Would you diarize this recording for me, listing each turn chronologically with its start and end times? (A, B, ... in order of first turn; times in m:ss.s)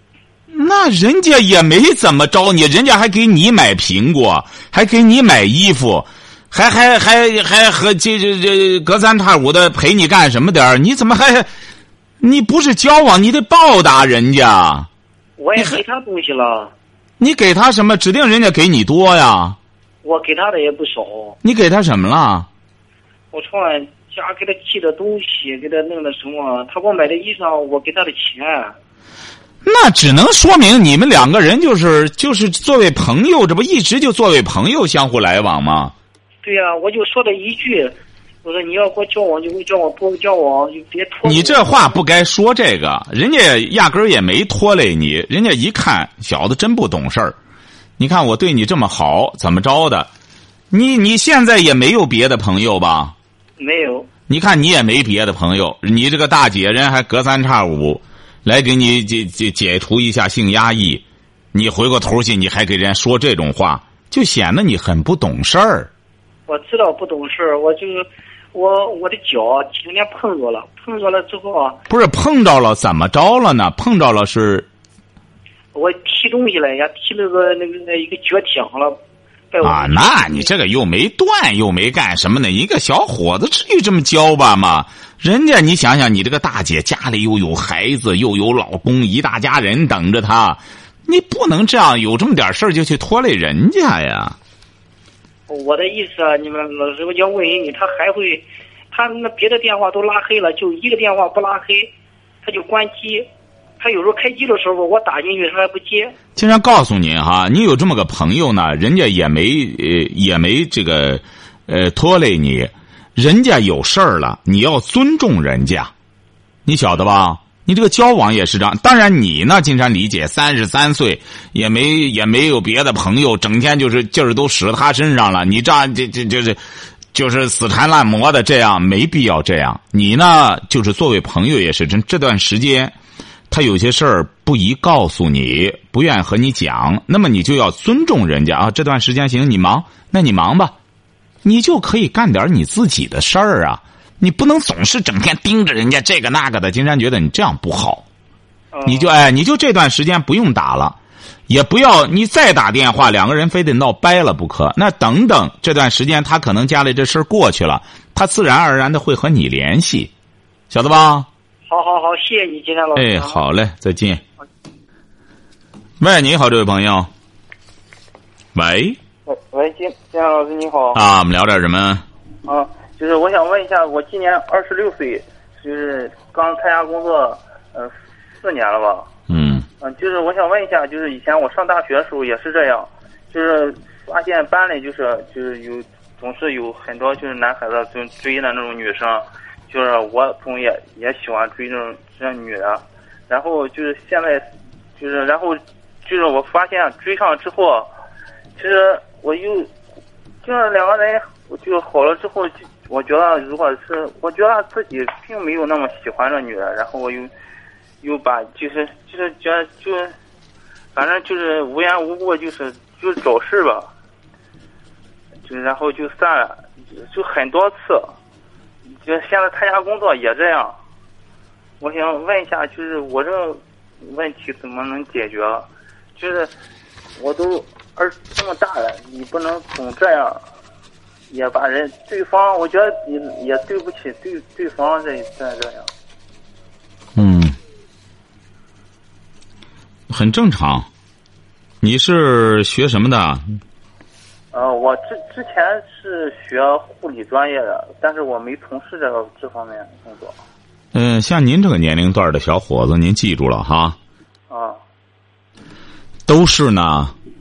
0:00.5-0:11.5 A
0:12.2-0:14.9 A
0:15.4-0:16.7 B
0:17.2-0:19.6 A
0:20.0-0:21.4 B
0:21.4-0:22.5 A
0:23.3-0:28.8 B
0:29.6-0:35.9 A
0:36.4-0:42.0 B
0:41.2-0:47.4 A
0:48.0-0:50.1 A
0:50.7-0:53.1 A
0:53.6-0:54.1 B
0:54.3-1:05.9 A
1:06.5-1:11.8 B
1:11.9-1:14.7 A
1:15.8-1:19.0 B
1:19.5-1:20.5 B
1:19.6-1:34.4 A
1:35.5-1:41.9 B
1:42.4-1:43.3 B
1:43.8-1:46.2 B
1:46.4-1:55.9 A
1:56.6-2:06.6 A
2:07.1-2:12.9 A
2:13.5-2:20.8 A
2:21.4-2:28.0 A
2:28.7-2:29.1 B
2:28.9-2:31.0 A
2:31.5-2:40.1 A
2:40.7-2:41.3 A
2:41.7-2:43.4 B
2:42.9-2:44.2 A
2:46.0-2:47.1 A
2:48.6-2:49.0 A
2:49.3-2:51.0 C
2:50.9-2:52.0 A
2:52.4-2:59.1 C
2:59.3-2:59.7 A
2:59.8-3:14.4 C
3:15.0-3:17.9 C
3:18.6-3:19.7 C
3:20.4-3:27.3 C
3:28.0-3:30.1 C
3:30.9-3:33.9 C
3:35.4-3:38.1 C
3:39.0-3:40.8 C
3:41.8-3:46.5 C
3:47.2-3:50.4 C
3:51.3-3:55.9 C
3:57.2-3:57.6 A
4:00.1-4:00.9 A
4:01.8-4:03.4 A
4:04.5-4:10.4 C
4:10.9-4:14.0 A
4:14.5-4:14.8 C
4:16.3-4:17.1 A